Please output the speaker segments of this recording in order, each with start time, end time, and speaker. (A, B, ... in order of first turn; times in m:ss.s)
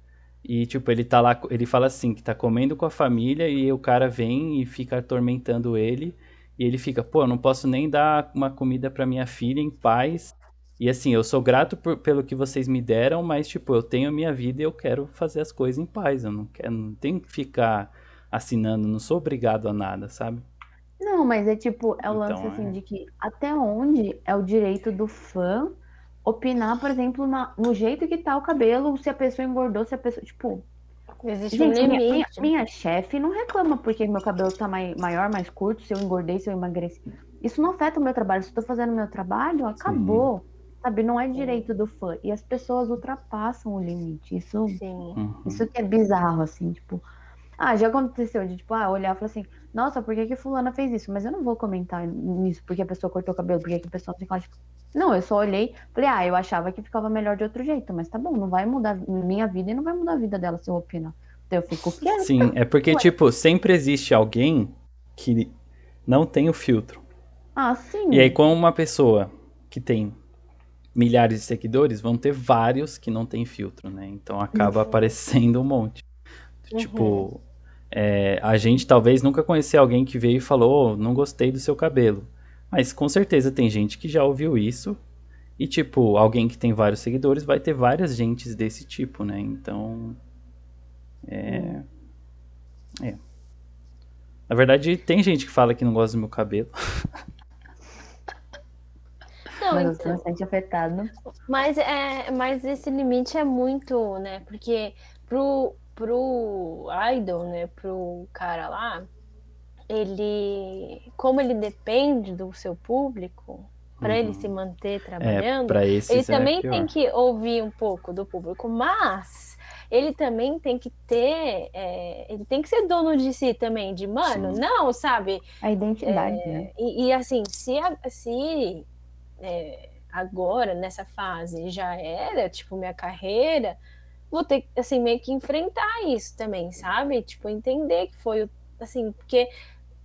0:00.4-0:20.4 A
0:21.0-0:30.6 B
0:22.0-0:22.8 A
0:31.2-0:32.5 C
0:31.5-0:44.8 B
0:39.8-0:40.3 A
0:41.3-0:41.6 C
0:44.8-0:45.2 C
0:45.2-0:45.6 A
0:45.4-0:47.0 B
0:47.6-1:03.1 B
1:02.2-1:05.5 A
1:06.0-1:07.0 A
1:07.6-1:08.4 B
1:08.1-1:10.2 A
1:10.9-1:16.0 A
1:16.6-1:25.0 A
1:16.7-1:17.3 C
1:25.6-1:30.2 A
1:31.2-1:31.8 A
1:31.4-1:31.8 B
1:34.5-1:37.2 A
1:39.5-1:40.2 C
1:39.7-1:41.1 B
1:41.4-1:49.1 C
1:49.9-2:05.4 C
1:54.0-1:54.5 A
1:55.2-1:56.9 A
2:04.3-2:04.6 A
2:05.6-2:06.7 B
2:06.0-2:08.8 C
2:09.4-2:13.8 C
2:14.3-2:19.5 C